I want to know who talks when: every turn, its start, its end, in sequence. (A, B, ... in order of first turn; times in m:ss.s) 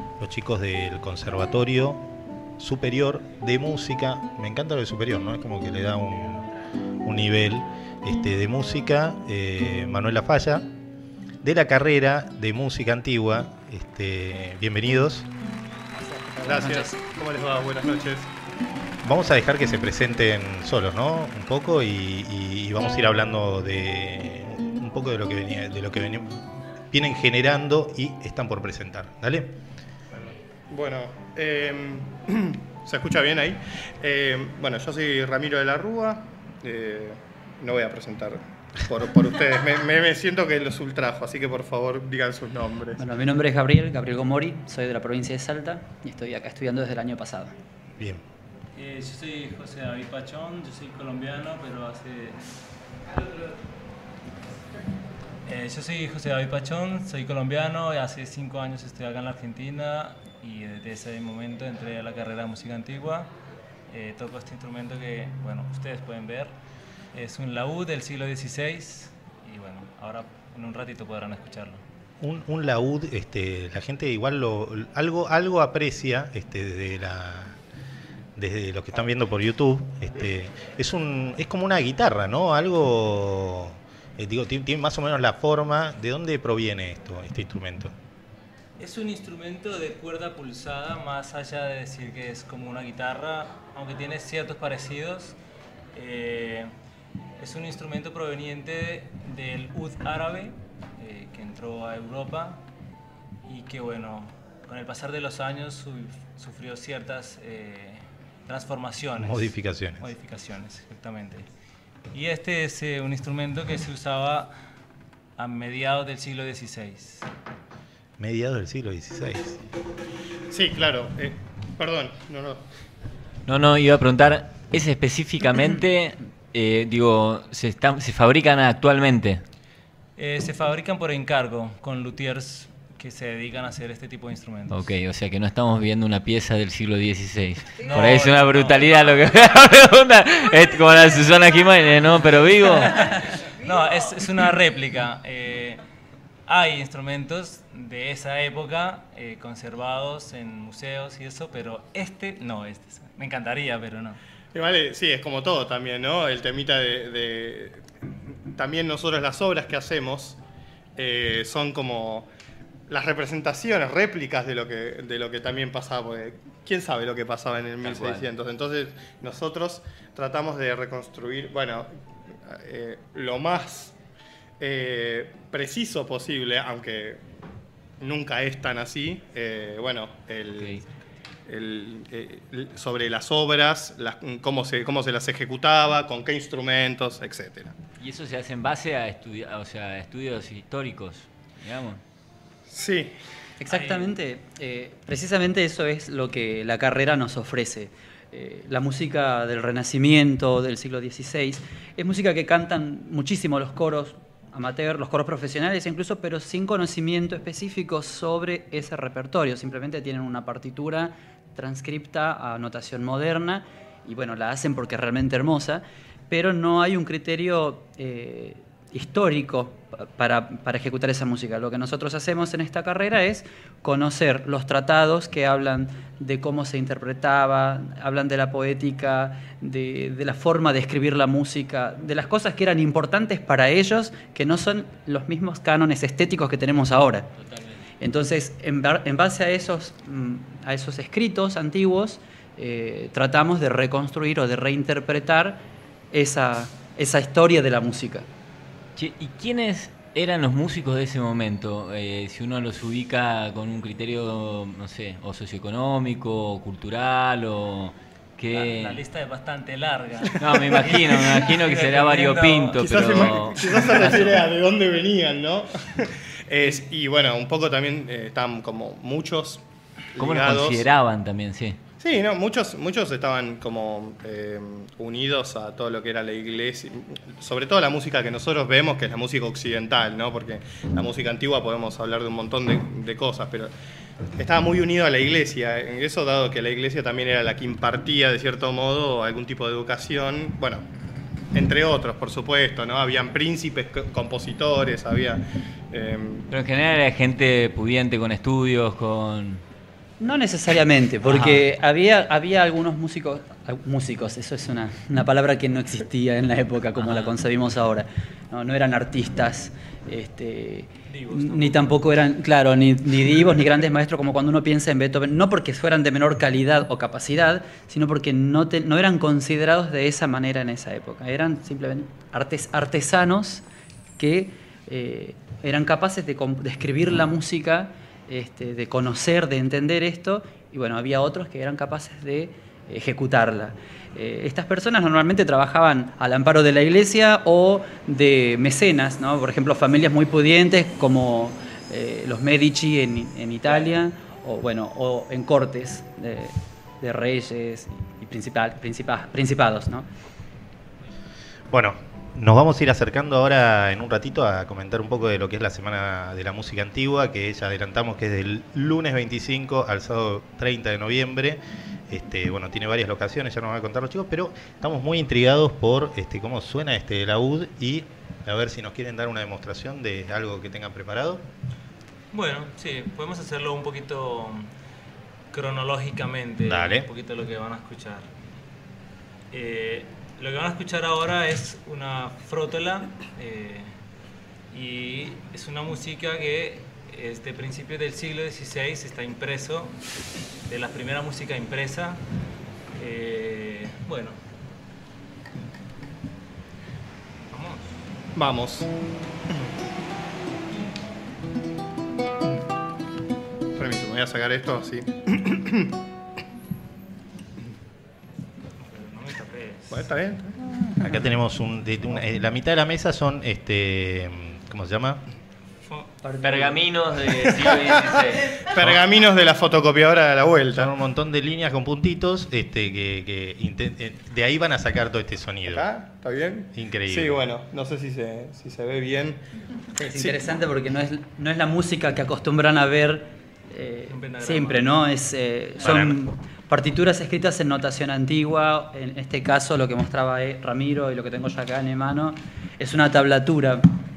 0:00.2-0:02.0 A
0:02.6-0:06.5 A
0:07.0-0:10.7 A
0:11.4-0:15.3 A
0:16.0-0:17.0 B
0:16.4-0:18.3 C
0:19.0-0:26.4 A
0:26.9-0:29.5 A
0:30.1-0:43.0 C
0:43.0-0:47.5 B
0:48.0-0:48.2 A
0:48.8-0:52.4 D
0:55.5-1:03.3 D
1:03.9-1:06.5 D
1:07.1-1:11.8 D
1:12.2-1:17.6 A
1:18.4-1:28.0 A
1:28.8-1:35.4 D
1:35.9-1:36.7 D
1:37.4-1:42.6 D
1:43.5-1:51.5 D
1:49.2-1:50.1 A
1:52.1-1:54.5 D
1:55.4-1:57.3 D
1:58.2-1:59.6 A
2:00.5-2:02.6 C
2:03.5-2:09.4 E
2:10.2-2:14.8 D
2:14.7-2:23.1 E
2:17.8-2:19.7 D
2:22.8-2:25.8 D
2:26.5-2:34.2 D
2:34.5-2:37.9 C
2:38.5-2:40.4 C
2:41.0-2:42.3 C
2:42.9-2:54.0 C
2:47.9-2:48.2 E
2:54.6-2:57.2 C
2:58.0-3:00.8 C
3:01.5-3:07.8 C
3:08.0-3:12.0 E
3:12.7-3:13.2 C
3:13.6-3:57.3 B
3:13.7-3:14.2 D
3:57.4-3:57.8 E
3:58.0-4:08.3 B
4:09.0-4:19.0 E
4:18.5-4:24.0 D
4:20.4-4:24.4 E
4:22.8-4:30.9 C
4:30.2-4:31.8 E
4:32.0-4:43.7 C
4:44.4-4:50.8 C
4:51.5-4:56.5 C
4:56.5-4:59.6 E
5:00.2-5:23.6 B
5:01.2-5:01.6 E
5:07.0-5:07.4 E
5:11.1-5:12.0 D
5:24.2-5:50.1 B
5:51.7-6:11.4 A
6:12.3-6:14.7 D
6:15.5-6:18.3 D
6:16.6-6:17.1 A
6:19.5-6:23.9 D
6:24.7-6:30.0 D
6:30.7-6:32.2 D
6:33.0-6:34.4 D
6:37.5-6:38.0 D
6:38.4-6:38.9 C
6:43.8-6:46.0 C
6:48.8-6:50.1 D
6:49.9-6:51.1 C
6:51.0-6:55.2 A
6:56.2-6:56.8 B
6:56.4-6:58.7 E
6:57.4-7:00.9 C
6:58.7-6:59.0 A
7:00.7-7:05.9 A
7:05.7-7:09.4 C
7:06.7-7:07.4 A
7:10.0-7:23.9 B
7:10.1-7:10.4 C
7:14.1-7:14.9 D
7:15.8-7:16.2 A